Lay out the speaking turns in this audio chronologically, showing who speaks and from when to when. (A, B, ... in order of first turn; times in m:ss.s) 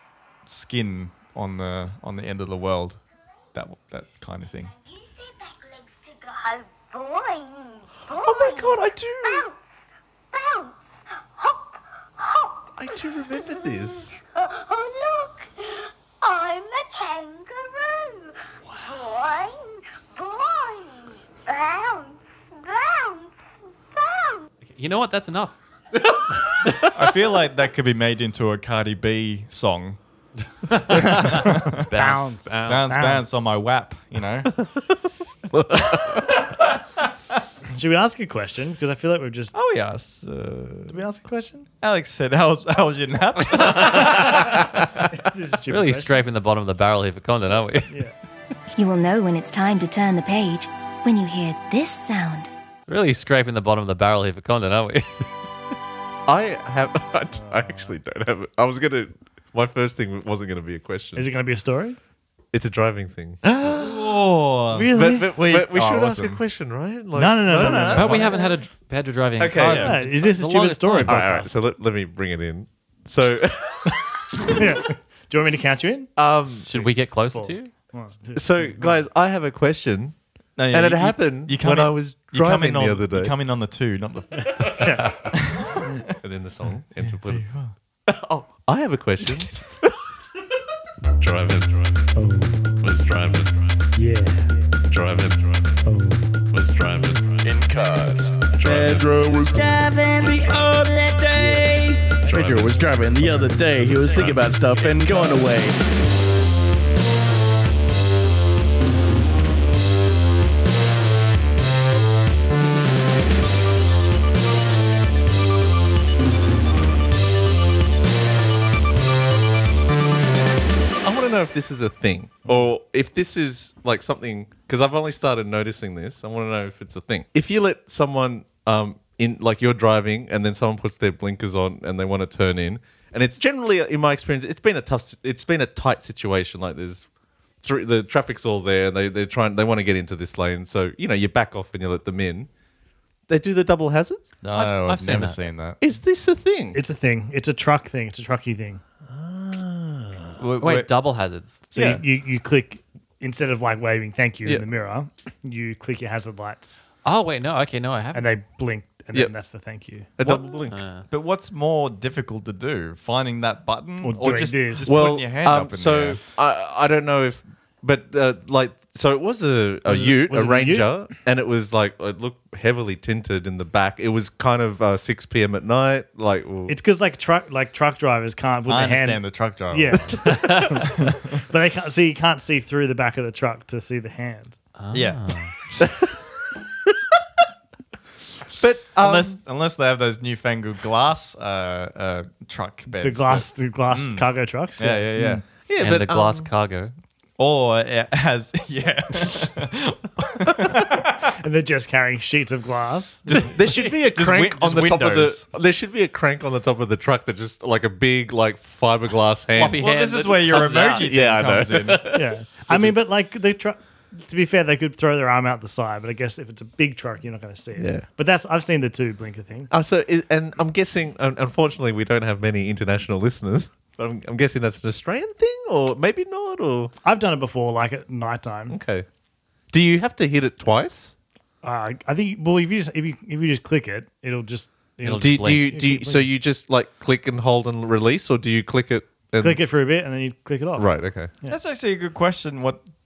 0:00.4-0:03.0 A
0:03.5-0:04.7 A
0:04.7-0:09.6 B
0:08.2-0:09.4 C
0:10.3-0:24.4 B
0:12.8-0:14.2 C
0:24.6-0:25.6 D
0:26.0-0:27.1 C
0:26.9-0:30.0 A
0:30.8-0:32.9 D
0:30.9-0:31.8 A
0:31.4-0:33.2 E
0:32.6-0:34.5 A
0:35.5-0:36.4 C
0:37.7-0:39.6 E
0:39.5-0:41.0 A
0:40.9-0:41.7 E
0:41.8-0:45.1 A
0:45.1-0:46.1 E
0:45.7-0:48.0 D
0:47.9-0:48.1 E
0:48.8-0:52.5 F
0:52.9-0:55.3 D
0:56.3-1:01.2 C
0:57.3-0:58.0 E
1:01.2-1:02.0 E
1:02.5-1:04.1 C
1:03.7-1:06.4 A
1:04.7-1:05.4 E
1:04.9-1:08.5 C
1:07.1-1:08.2 E
1:07.5-1:08.4 A
1:08.0-1:11.2 D
1:09.4-1:10.0 C
1:09.7-1:11.5 E
1:11.0-1:14.6 C
1:14.5-1:16.1 E
1:16.2-1:16.7 C
1:16.7-1:17.7 D
1:16.7-1:19.0 E
1:18.3-1:20.1 C
1:20.6-1:26.1 A
1:20.7-1:23.3 C
1:24.5-1:25.3 E
1:26.2-1:27.4 C
1:27.0-1:27.7 A
1:28.0-1:29.8 C
1:31.1-1:32.1 C
1:32.1-1:32.8 E
1:32.8-1:33.8 C
1:33.9-1:34.6 E
1:34.9-1:35.8 C
1:35.8-1:36.3 E
1:36.5-1:37.6 C
1:37.4-1:45.8 A
1:38.5-1:39.3 C
1:39.5-1:42.1 B
1:41.3-1:41.7 E
1:42.2-1:42.8 C
1:43.9-1:44.5 C
2:01.0-2:17.0 C
2:17.6-2:22.5 C
2:23.3-2:24.3 C
2:24.4-2:25.8 A
2:24.5-2:25.4 D
2:25.8-2:26.8 C
2:26.7-2:28.8 E
2:29.1-2:30.4 C
2:30.4-2:30.9 A
2:30.6-2:31.6 D
2:31.7-2:32.0 A
2:31.7-2:36.8 E
2:31.8-2:32.0 C
2:37.0-2:38.2 D
2:38.1-2:40.1 E
2:40.2-2:40.8 C
2:40.2-2:40.6 A
2:40.7-2:41.0 D
2:41.1-2:46.2 A
2:44.0-2:44.9 E
2:44.8-2:56.7 C
2:49.8-2:50.9 E
2:56.7-3:04.6 E
2:58.7-3:00.3 A
3:00.2-3:00.7 D
3:04.8-3:05.5 D
3:04.9-3:05.2 A
3:08.5-3:09.4 C
3:09.0-3:15.4 A
3:12.9-3:15.4 E
3:15.2-3:16.5 C
3:15.8-3:16.9 D
3:17.4-3:21.3 A
3:21.3-3:23.4 E
3:23.2-3:25.4 A
3:23.4-3:29.8 C
3:29.5-3:31.1 D
3:29.8-3:32.2 A
3:31.0-3:32.9 C
3:32.1-3:39.7 E
3:37.8-3:38.0 C
3:39.7-3:46.9 C
3:47.0-3:48.8 E
3:48.7-3:49.0 C
3:49.7-3:51.1 C
3:51.6-3:56.3 E
3:55.0-3:55.8 D
3:55.2-3:59.6 C
3:59.4-4:01.6 E
4:00.8-4:01.3 C
4:01.5-4:02.8 A